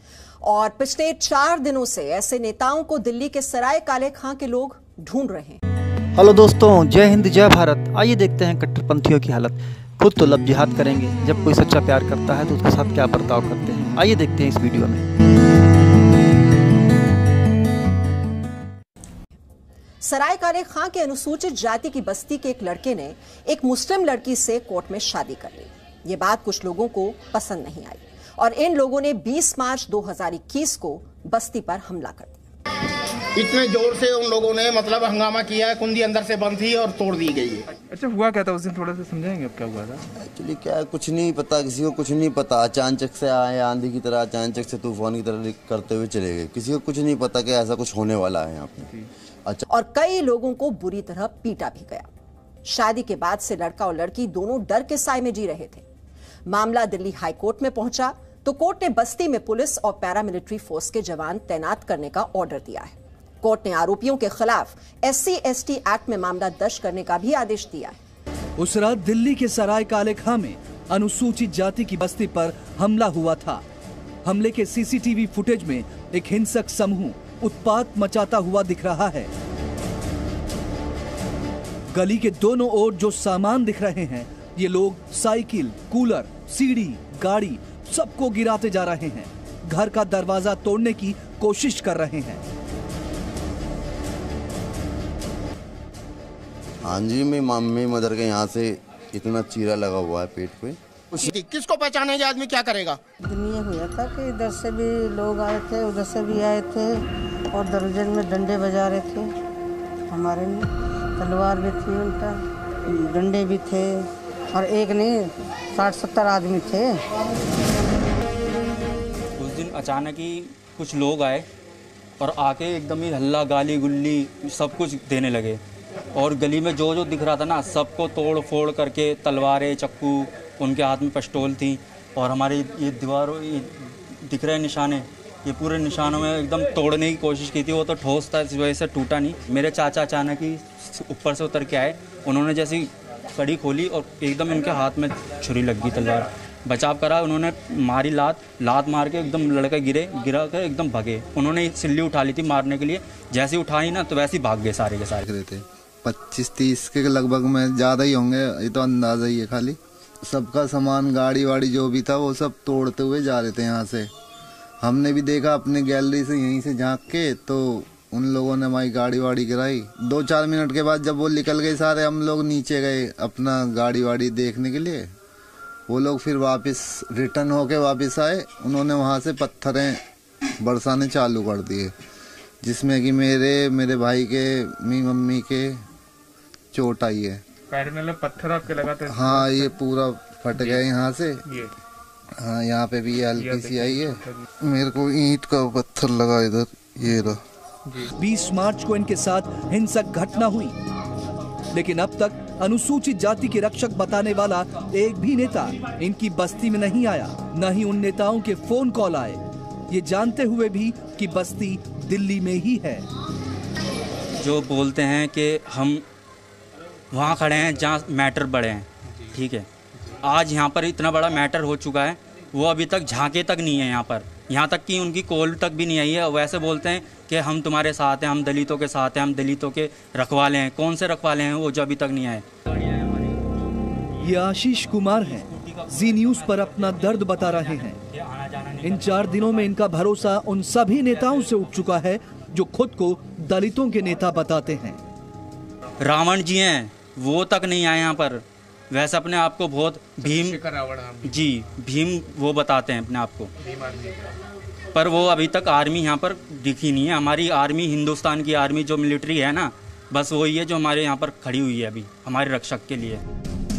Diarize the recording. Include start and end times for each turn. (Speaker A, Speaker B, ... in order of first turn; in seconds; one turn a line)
Speaker A: 0.4-5.6
Speaker B: 6.1-15.1
Speaker A: 20.0-32.4
Speaker C: 33.4-37.6
Speaker D: 37.9-40.0
Speaker E: 40.3-48.9
Speaker A: 49.7-52.1
Speaker A: 52.6-55.8
Speaker A: 56.5-68.0
Speaker F: 68.6-73.6
Speaker F: 74.2-79.3
Speaker F: 81.9-92.4
Speaker E: 96.8-101.3
Speaker C: 101.3-103.0
Speaker G: 103.3-106.9
Speaker G: 107.5-109.3
Speaker G: 110.1-110.7
Speaker G: 111.2-117.0
Speaker H: 119.4-121.5
Speaker H: 122.2-125.6
Speaker H: 126.1-155.2
Speaker I: 155.2-164.1
Speaker I: 164.8-175.1
Speaker I: 175.9-180.0
Speaker I: 180.6-181.9
Speaker I: 182.6-185.8
Speaker I: 186.7-187.4
Speaker D: 187.7-189.7
Speaker I: 189.1-191.5
Speaker I: 192.4-197.4
Speaker D: 193.4-194.4
Speaker F: 198.2-200.7
Speaker F: 201.7-213.0
Speaker H: 214.4-216.0
Speaker H: 217.1-219.7
Speaker H: 220.2-233.7
Speaker F: 234.2-238.0
Speaker H: 234.6-240.4
Speaker F: 238.8-245.0
Speaker H: 241.1-242.0
Speaker H: 246.0-250.7
Speaker H: 251.2-253.5
Speaker H: 254.9-263.2